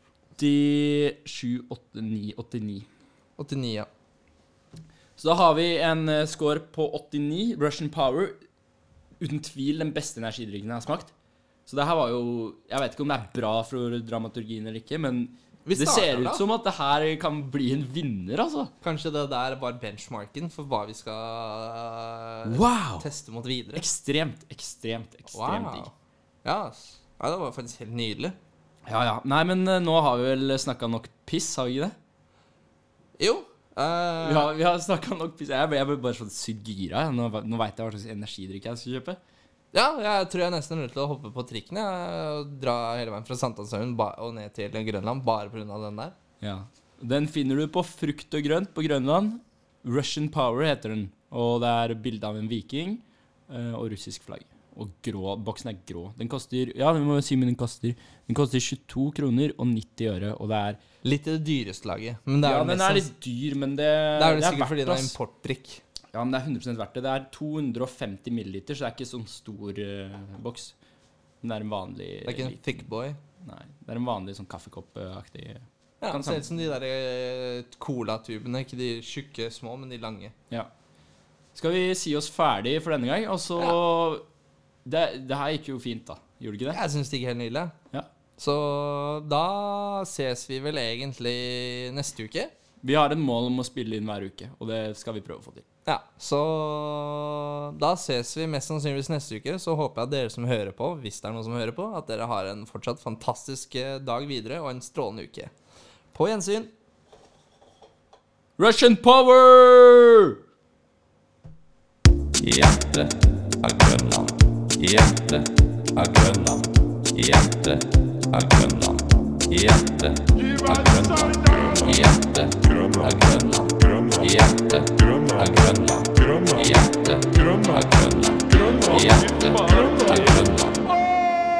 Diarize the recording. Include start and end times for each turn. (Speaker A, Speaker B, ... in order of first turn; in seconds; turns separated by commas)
Speaker A: 0.4-2.9, Speaker B: 3.4-3.9, Speaker A: 5.2-8.4, Speaker A: 9.2-11.1, Speaker A: 11.7-18.7, Speaker B: 15.7-16.4, Speaker B: 18.8-23.9, Speaker A: 22.4-23.1, Speaker A: 23.8-25.9, Speaker B: 25.3-25.9, Speaker B: 26.4-28.4, Speaker A: 28.9-32.0, Speaker B: 33.2-34.5, Speaker A: 34.2-39.2, Speaker B: 39.7-46.1, Speaker A: 46.4-60.8, Speaker B: 61.0-63.1, Speaker A: 62.4-65.2, Speaker B: 64.2-65.8, Speaker A: 66.1-70.8, Speaker A: 71.4-72.7, Speaker B: 72.3-73.2, Speaker A: 73.4-76.5, Speaker B: 76.0-80.3, Speaker A: 81.5-84.2, Speaker A: 84.8-86.8, Speaker B: 86.7-87.8, Speaker B: 88.4-92.5, Speaker A: 92.8-95.7, Speaker B: 95.9-105.5, Speaker B: 106.1-106.7, Speaker A: 108.6-110.4, Speaker B: 112.4-113.1, Speaker B: 113.6-115.4, Speaker B: 116.0-116.6, Speaker B: 117.1-117.8, Speaker B: 118.3-119.0, Speaker B: 119.5-119.8, Speaker C: 120.4-130.8